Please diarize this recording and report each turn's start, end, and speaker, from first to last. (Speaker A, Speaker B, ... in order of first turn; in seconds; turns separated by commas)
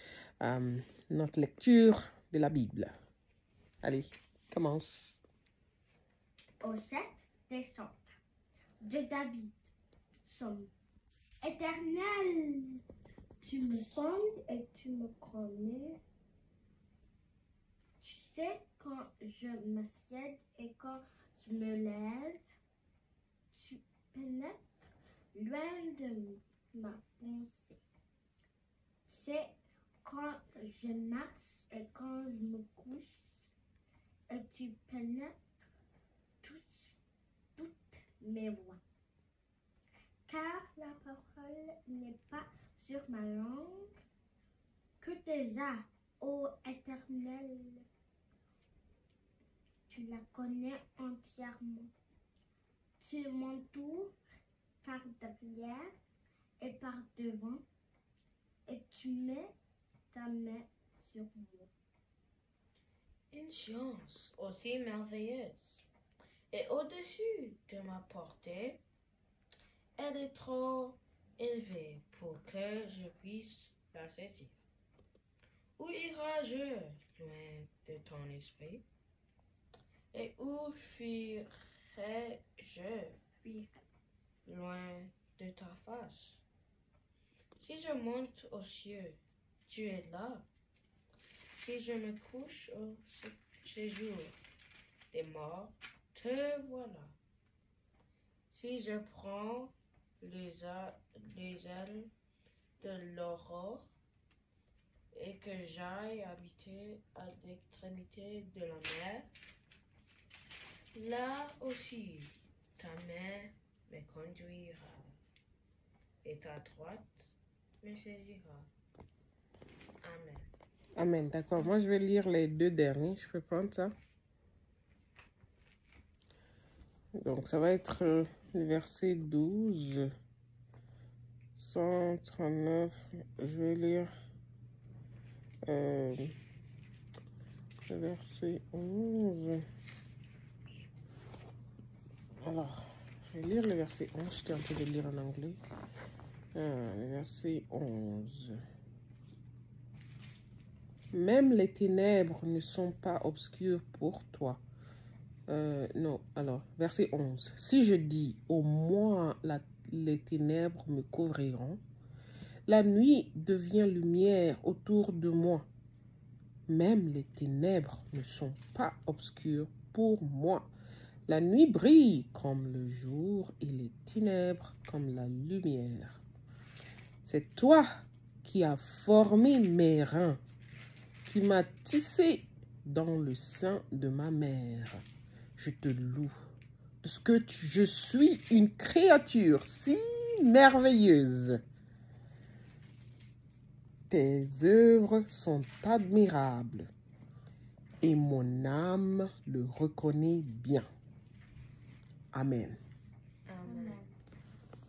Speaker A: 0.4-2.9, Speaker A: 3.8-5.2, Speaker B: 6.6-8.0, Speaker B: 8.8-9.7, Speaker B: 10.2-10.7, Speaker B: 11.4-12.8, Speaker B: 13.4-16.0, Speaker B: 18.0-22.4, Speaker B: 23.5-27.8, Speaker B: 29.1-33.5, Speaker B: 34.3-35.6, Speaker B: 36.4-37.0, Speaker B: 37.5-38.8, Speaker B: 40.2-43.9, Speaker B: 45.0-47.9, Speaker B: 49.9-51.9, Speaker B: 53.0-54.1, Speaker B: 54.8-55.9, Speaker B: 56.6-57.6, Speaker B: 58.6-59.5, Speaker B: 60.1-61.7, Speaker C: 63.3-65.9, Speaker C: 66.5-68.8, Speaker C: 70.0-74.6, Speaker C: 75.8-78.8, Speaker C: 80.1-83.2, Speaker B: 83.4-83.8, Speaker C: 84.5-86.4, Speaker C: 87.6-90.5, Speaker C: 91.5-94.4, Speaker C: 95.1-97.2, Speaker C: 98.5-102.1, Speaker C: 102.8-103.9, Speaker C: 105.1-109.3, Speaker C: 110.9-115.2, Speaker C: 116.2-118.7, Speaker C: 120.0-120.5, Speaker A: 121.0-123.9, Speaker A: 127.1-130.1, Speaker A: 131.6-134.1, Speaker A: 135.6-136.3, Speaker A: 137.9-139.7, Speaker A: 142.4-145.6, Speaker A: 146.5-148.6, Speaker A: 151.1-154.6, Speaker A: 155.5-161.8, Speaker A: 162.7-165.7, Speaker A: 166.7-170.7, Speaker A: 171.3-176.2, Speaker A: 177.2-180.4, Speaker A: 181.2-185.0, Speaker A: 185.6-186.3, Speaker A: 187.0-191.6, Speaker A: 194.1-196.9, Speaker A: 198.0-200.9, Speaker A: 202.3-202.8, Speaker C: 203.5-204.0, Speaker B: 203.6-204.1